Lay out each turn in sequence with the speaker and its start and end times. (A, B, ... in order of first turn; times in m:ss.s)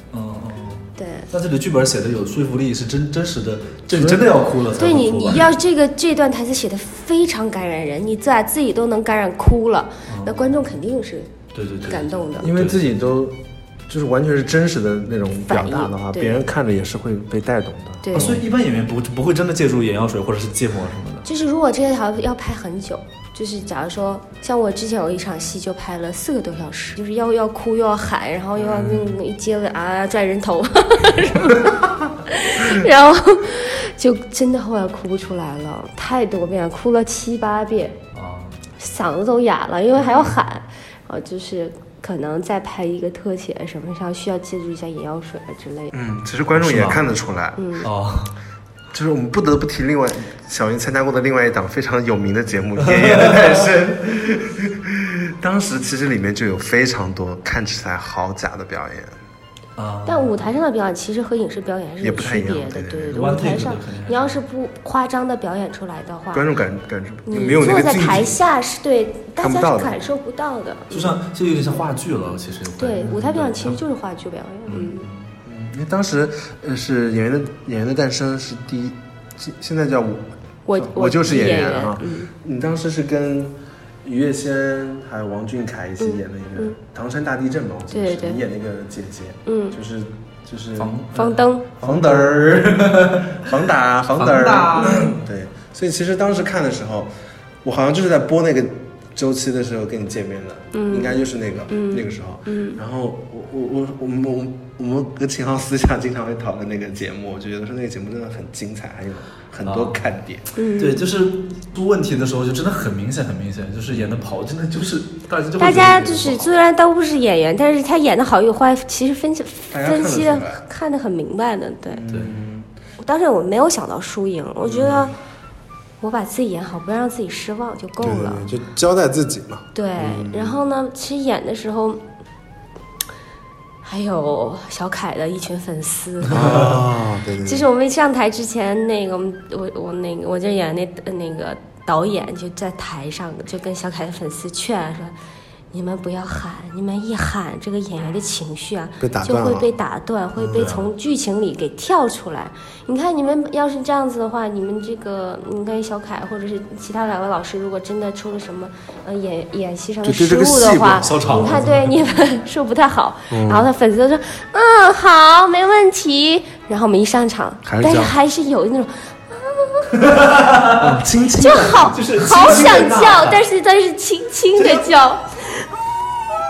0:00.1-0:05.5 A
0:01.0-0:01.3 B
0:03.9-0:04.3 C
0:04.8-0:12.5 B
0:10.1-0:10.4 A
0:11.5-0:12.8 A
0:12.4-0:18.4 C
0:15.5-0:16.3 B
0:18.0-0:18.4 B
0:18.1-0:21.2 A
0:21.2-0:38.0 B
0:28.6-0:29.1 C
0:38.1-0:38.6 A
0:38.8-0:45.9 B
0:45.9-0:47.6 C
0:46.6-0:47.0 A
0:47.6-0:47.9 B
0:47.8-0:48.3 A
0:48.9-0:59.2 C
0:52.8-0:53.6 A
0:59.8-1:00.4 A
1:00.0-1:06.5 B
1:02.0-1:03.2 C
1:03.1-1:04.4 A
1:06.3-1:08.4 C
1:07.2-1:11.2 B
1:09.4-1:10.0 C
1:10.9-1:13.8 A
1:12.8-1:15.1 B
1:14.7-1:15.2 A
1:15.4-1:30.9 C
1:20.7-1:22.3 B
1:26.0-1:26.8 B
1:27.9-1:28.4 B
1:29.4-1:29.8 B
1:30.8-1:33.5 A
1:31.1-1:31.7 B
1:31.8-1:37.1 C
1:34.1-1:35.2 A
1:37.6-1:50.5 C
1:40.7-1:42.8 B
1:49.6-1:50.0 A
1:50.5-1:51.0 B
1:50.8-1:56.5 A
1:55.6-2:02.0 B
1:59.7-2:00.6 C
2:01.9-2:02.7 C
2:03.0-2:05.1 B
2:04.7-2:05.1 C
2:06.0-2:08.4 B
2:08.0-2:10.6 C
2:09.7-2:12.0 B
2:13.8-2:16.7 B
2:16.3-2:17.7 C
2:16.3-2:16.6 A
2:17.4-2:25.1 B
2:25.7-2:49.9 B
2:29.0-2:29.7 C
2:30.5-2:30.9 A
2:40.0-2:41.6 C
2:41.0-2:41.8 A
2:43.3-2:43.7 C
2:47.6-2:48.1 C
2:50.0-2:51.0 A
2:50.8-2:52.0 C
2:51.4-2:55.4 B
2:51.9-2:53.4 A
2:54.6-2:54.8 A